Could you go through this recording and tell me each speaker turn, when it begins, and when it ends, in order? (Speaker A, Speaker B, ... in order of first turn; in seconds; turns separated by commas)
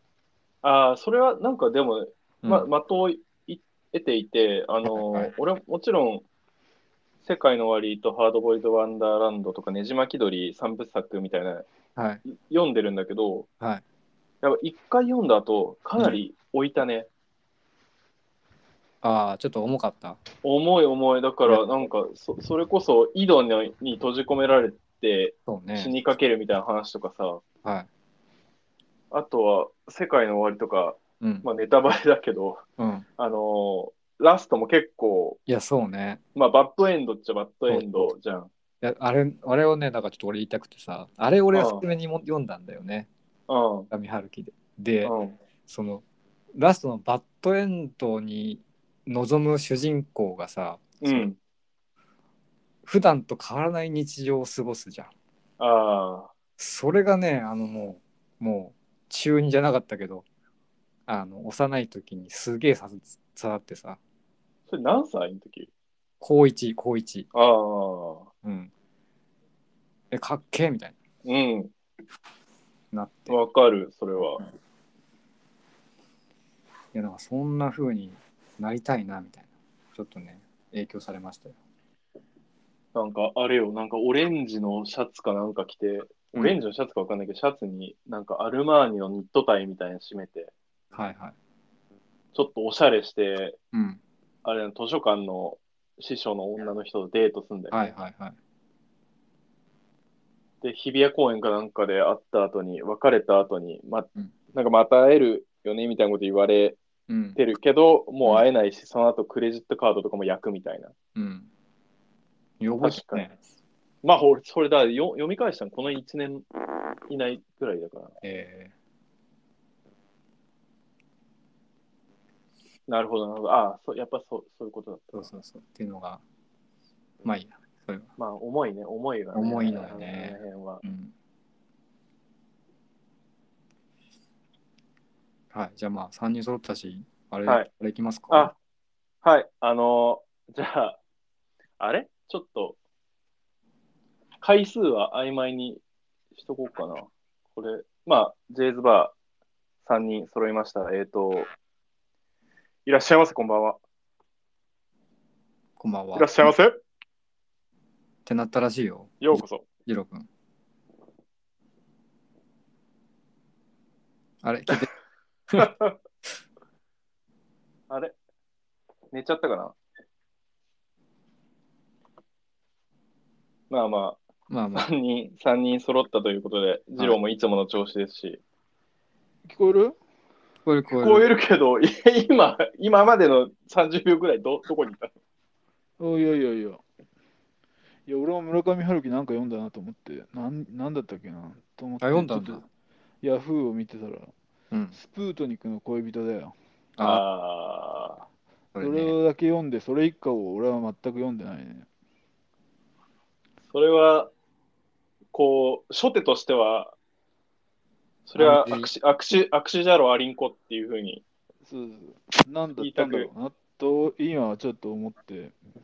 Speaker A: 0.6-6.2, Speaker B: 2.4-2.7, Speaker B: 4.8-5.3, Speaker A: 7.2-11.7, Speaker B: 12.0-12.2, Speaker A: 12.2-13.5, Speaker A: 14.4-17.1, Speaker B: 19.0-20.2, Speaker A: 20.4-27.4, Speaker B: 25.5-25.9, Speaker A: 29.1-32.6, Speaker B: 31.2-31.5, Speaker B: 32.8-33.1, Speaker A: 33.2-35.4, Speaker B: 35.5-36.2, Speaker A: 36.4-38.5, Speaker B: 37.7-38.1, Speaker B: 38.8-43.1, Speaker A: 41.5-41.9, Speaker A: 43.5-43.9, Speaker B: 43.9-45.1, Speaker A: 45.0-45.4, Speaker B: 45.7-51.3, Speaker A: 51.0-51.4, Speaker B: 52.9-55.1, Speaker A: 55.6-56.3, Speaker B: 56.6-60.3, Speaker B: 61.1-64.0, Speaker A: 64.7-65.7, Speaker B: 66.2-67.3, Speaker A: 67.3-68.3, Speaker B: 68.4-68.7, Speaker B: 70.1-71.0, Speaker A: 71.2-71.7, Speaker B: 72.9-73.3, Speaker A: 73.3-74.5, Speaker B: 76.9-81.6, Speaker A: 83.0-90.5, Speaker B: 86.3-86.6, Speaker B: 90.9-91.3, Speaker A: 92.3-93.6, Speaker B: 93.7-94.0, Speaker A: 94.5-97.9, Speaker B: 97.7-98.4, Speaker A: 100.6-106.8, Speaker B: 107.1-107.4, Speaker A: 107.3-111.0, Speaker B: 111.2-111.5, Speaker B: 112.6-113.4, Speaker A: 112.8-113.3, Speaker A: 114.0-116.5, Speaker A: 117.1-118.2, Speaker B: 118.2-118.7, Speaker A: 122.9-125.3, Speaker B: 125.1-126.2, Speaker B: 127.2-128.1, Speaker A: 128.2-130.8, Speaker B: 129.3-131.1, Speaker B: 135.5-138.5, Speaker A: 138.3-138.6, Speaker A: 139.2-141.0, Speaker A: 141.8-142.8, Speaker A: 144.4-145.8, Speaker A: 146.3-149.1, Speaker A: 149.8-151.5, Speaker A: 152.9-153.8, Speaker B: 155.8-156.3, Speaker A: 156.2-156.8, Speaker B: 158.3-160.3, Speaker A: 159.2-159.7, Speaker B: 164.4-164.9, Speaker A: 165.6-166.0, Speaker A: 167.9-168.2, Speaker A: 169.1-169.8, Speaker A: 173.7-174.2, Speaker B: 174.5-174.9, Speaker A: 174.8-178.4, Speaker C: 179.5-180.0, Speaker B: 180.7-181.3, Speaker A: 181.0-185.1, Speaker C: 186.0-186.8, Speaker C: 188.1-192.7, Speaker B: 192.0-192.6, Speaker C: 193.2-194.3, Speaker B: 194.7-195.0, Speaker C: 194.9-196.6, Speaker B: 197.0-197.2, Speaker A: 197.0-198.2, Speaker B: 198.8-199.2, Speaker C: 198.8-201.9, Speaker A: 203.7-204.3, Speaker A: 205.3-207.0, Speaker A: 208.3-211.2, Speaker B: 208.4-208.9, Speaker C: 211.7-215.6, Speaker A: 212.8-213.3